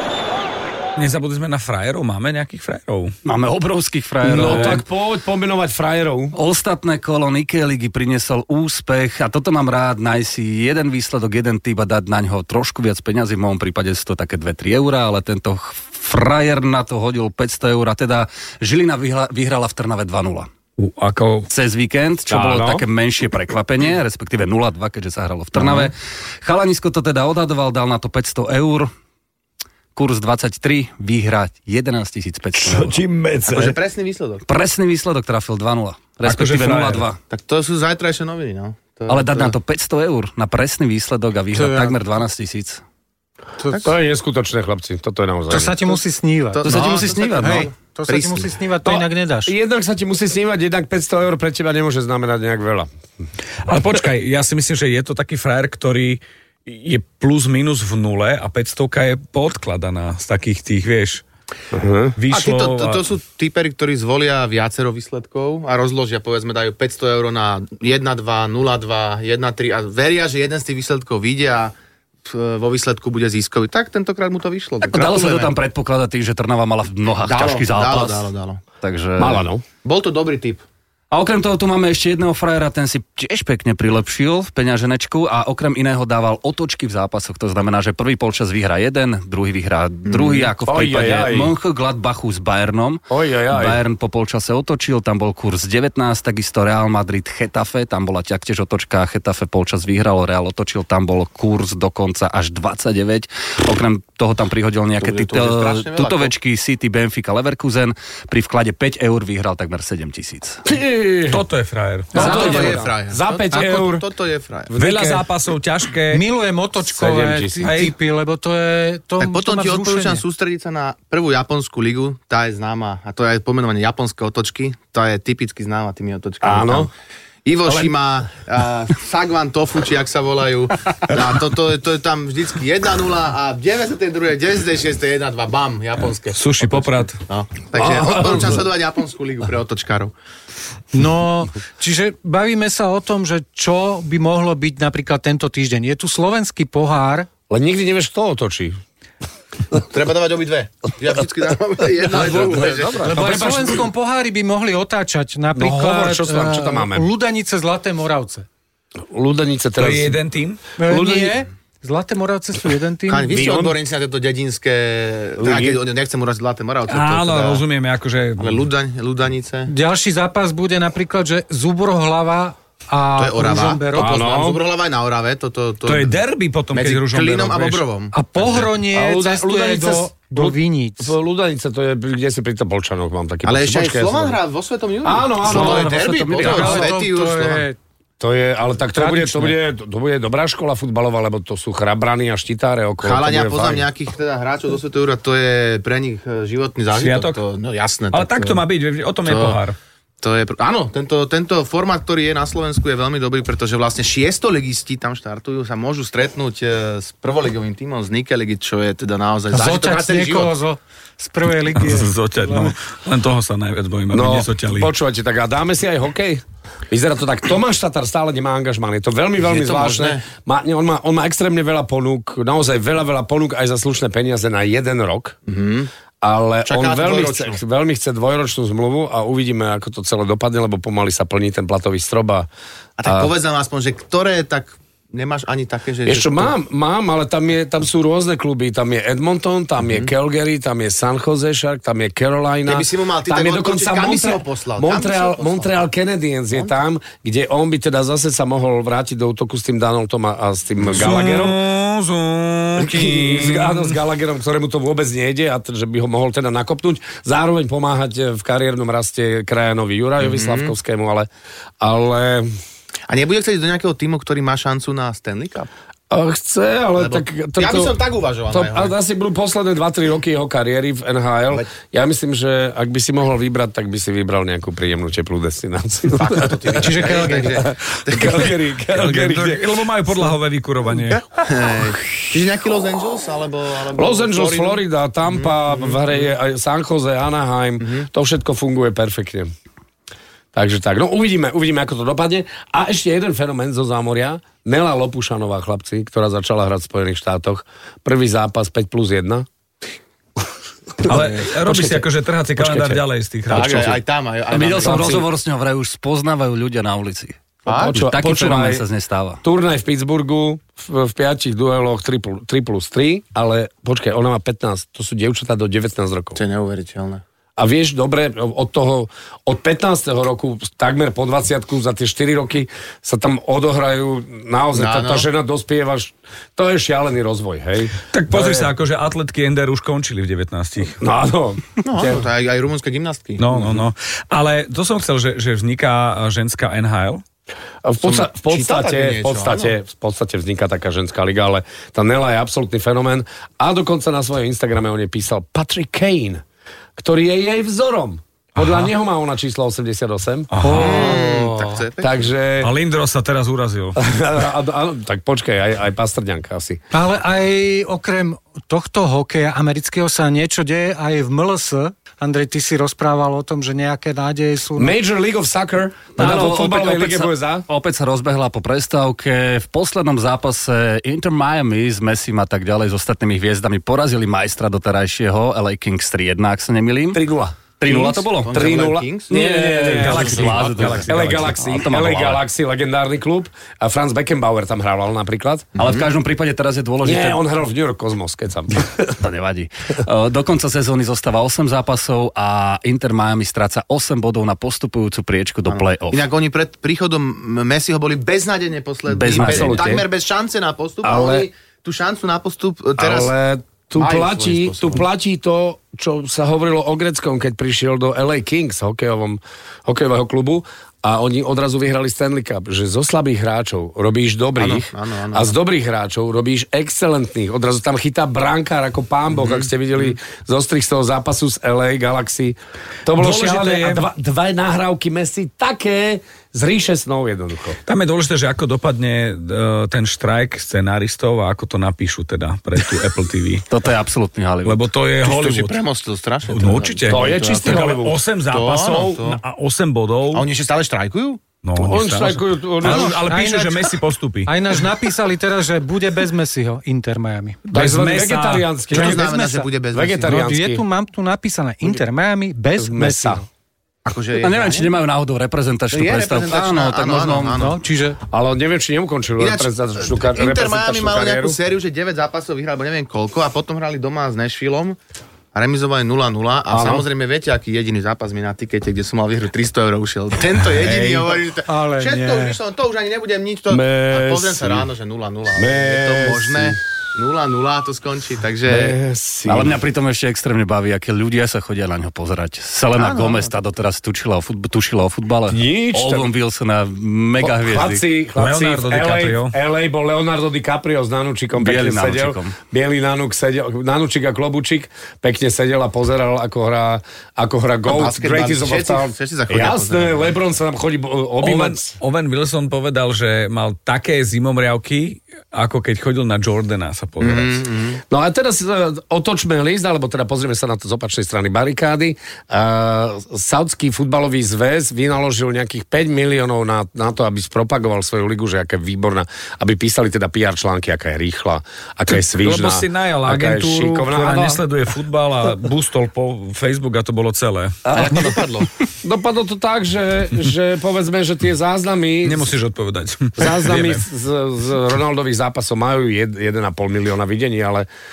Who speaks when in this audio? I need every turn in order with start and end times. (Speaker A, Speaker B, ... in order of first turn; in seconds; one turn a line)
Speaker A: 0.9-3.1
Speaker B: 3.2-4.8
Speaker C: 4.2-6.3
Speaker A: 4.4-4.7
Speaker B: 6.3-20.5
Speaker A: 20.8-21.5
Speaker B: 21.5-28.9
Speaker C: 22.3-22.8
Speaker C: 25.6-25.9
Speaker B: 29.9-33.0
Speaker A: 32.6-33.8
Speaker D: 33.5-34.4
Speaker B: 34.5-37.2
Speaker A: 36.2-37.1
Speaker D: 37.3-39.5
Speaker B: 39.1-42.8
Speaker E: 41.5-41.9
Speaker C: 43.8-46.0
Speaker E: 45.5-49.5
Speaker D: 46.5-48.5
Speaker B: 46.6-47.7
Speaker C: 48.8-52.9
Speaker A: 53.6-61.2
Speaker C: 61.7-62.1
Speaker A: 62.2-63.0
Speaker D: 62.3-71.7
Speaker D: 72.2-75.5
Speaker B: 74.8-78.3
Speaker D: 77.2-78.6
Speaker B: 78.8-79.4
Speaker C: 79.2-79.6
Speaker D: 79.8-80.6
Speaker B: 81.1-110.6
Speaker D: 90.1-90.5
Speaker C: 90.6-91.5
Speaker C: 93.1-93.8
Speaker D: 105.0-106.3
Speaker C: 110.7-111.4
Speaker A: 111.3-112.7
Speaker C: 112.1-114.0
Speaker D: 112.1-114.7
Speaker E: 112.2-112.6
Speaker C: 114.7-115.2
Speaker A: 114.7-116.2
Speaker E: 116.1-120.2
Speaker C: 116.9-117.7
Speaker A: 117.6-117.9
Speaker D: 119.2-126.9
Speaker C: 126.4-126.9
Speaker D: 127.4-140.1
Speaker C: 127.7-127.9
Speaker A: 136.3-137.2
Speaker C: 137.7-138.6
Speaker E: 140.9-147.3
Speaker C: 147.5-148.8
Speaker D: 149.8-153.2
Speaker C: 152.0-153.8
Speaker E: 153.0-158.4
Speaker C: 155.5-157.1
Speaker C: 159.1-160.2
Speaker A: 159.8-160.6
Speaker E: 160.8-163.3
Speaker C: 160.8-161.4
Speaker D: 163.1-167.6
Speaker C: 163.3-163.8
Speaker C: 165.4-165.8
Speaker A: 166.9-168.6
Speaker D: 168.4-169.7
Speaker E: 169.7-174.2
Speaker D: 173.2-176.2
Speaker C: 173.9-174.6
Speaker A: 175.8-177.8
Speaker D: 176.7-178.1
Speaker E: 178.1-181.1
Speaker C: 178.9-184.4
Speaker D: 183.4-187.7
Speaker C: 185.0-186.9
Speaker E: 185.5-185.8
Speaker E: 186.4-187.8
Speaker C: 188.2-193.9
Speaker E: 188.9-189.5
Speaker D: 193.0-198.6
Speaker A: 196.9-197.4
Speaker A: 198.1-199.8
Speaker D: 199.2-199.6
Speaker D: 200.2-210.5
Speaker E: 209.5-212.7
Speaker A: 211.7-214.9
Speaker C: 214.1-225.3
Speaker D: 219.4-220.2
Speaker D: 225.5-225.9
Speaker C: 226.2-232.5
Speaker D: 226.7-227.6
Speaker D: 233.0-236.5
Speaker C: 233.1-233.3
Speaker C: 236.0-251.6
Speaker D: 239.8-240.1
Speaker D: 242.7-245.7
Speaker A: 250.9-253.9
Speaker C: 252.8-261.3
Speaker D: 260.2-260.7
Speaker C: 261.8-262.6
Speaker D: 263.1-265.7
Speaker C: 266.1-268.0
Speaker D: 267.0-268.9
Speaker C: 268.5-279.7
Speaker D: 276.1-278.5
Speaker E: 276.8-277.5
Speaker A: 278.9-281.3
Speaker D: 281.3-286.3
Speaker C: 283.9-289.5
Speaker D: 287.8-288.1
Speaker C: 290.5-299.5
Speaker C: 301.0-303.0
Speaker A: 301.0-304.0
Speaker D: 303.5-305.2
Speaker C: 303.5-303.9
Speaker B: 304.5-309.4
Speaker C: 304.8-305.2
Speaker D: 307.6-308.0
Speaker C: 307.7-308.8
Speaker C: 309.4-316.4
Speaker D: 316.3-317.2
Speaker C: 317.6-328.7
Speaker D: 324.7-325.3
Speaker A: 328.1-331.0
Speaker C: 331.0-332.2
Speaker D: 331.8-333.4
Speaker A: 333.4-337.2
Speaker C: 337.8-346.4
Speaker D: 338.0-339.7
Speaker C: 346.9-352.7
Speaker A: 348.6-348.9
Speaker A: 350.5-351.1
Speaker D: 350.6-352.3
Speaker A: 352.6-354.0
Speaker C: 354.0-356.8
Speaker E: 356.9-365.0
Speaker C: 364.8-367.6
Speaker B: 366.1-377.2
Speaker C: 377.1-385.7
Speaker B: 377.8-378.7
Speaker D: 378.4-379.3
Speaker B: 379.3-382.4
Speaker A: 379.9-381.6
Speaker B: 385.8-387.4
Speaker D: 385.8-386.0
Speaker C: 387.0-389.1
Speaker B: 389.2-396.2
Speaker D: 395.7-403.3
Speaker B: 399.1-400.0
Speaker C: 399.3-400.1
Speaker C: 401.0-401.5
Speaker C: 403.0-427.8
Speaker D: 404.0-405.0
Speaker D: 414.6-415.6
Speaker D: 419.3-420.1
Speaker A: 423.1-424.1
Speaker A: 427.9-433.7
Speaker B: 433.7-434.9
Speaker A: 434.6-435.8
Speaker D: 435.2-439.4
Speaker A: 436.5-440.5
Speaker C: 437.1-438.1
Speaker D: 440.3-441.5
Speaker A: 441.6-444.5
Speaker C: 441.8-443.2
Speaker E: 442.8-448.1
Speaker A: 447.7-448.7
Speaker C: 447.7-449.3
Speaker E: 448.9-449.7
Speaker D: 448.9-450.4
Speaker C: 449.9-450.8
Speaker E: 450.2-453.5
Speaker C: 452.8-453.4
Speaker D: 454.0-454.9
Speaker B: 454.4-457.7
Speaker D: 455.9-457.8
Speaker E: 457.5-458.2
Speaker C: 458.3-461.6
Speaker D: 459.4-465.0
Speaker D: 465.5-478.9
Speaker C: 466.7-467.1
Speaker E: 471.6-472.6
Speaker C: 473.7-474.9
Speaker C: 475.5-476.8
Speaker C: 478.7-479.8
Speaker B: 479.4-488.0
Speaker D: 482.9-483.5
Speaker C: 485.5-486.3
Speaker C: 487.4-501.9
Speaker A: 488.4-489.5
Speaker B: 491.5-492.6
Speaker D: 497.9-500.4
Speaker A: 501.4-507.6
Speaker D: 507.2-508.0
Speaker C: 508.1-524.6
Speaker A: 522.1-528.1
Speaker C: 527.8-528.4
Speaker D: 527.9-528.7
Speaker C: 529.0-532.5
Speaker A: 532.2-534.0
Speaker C: 533.4-537.9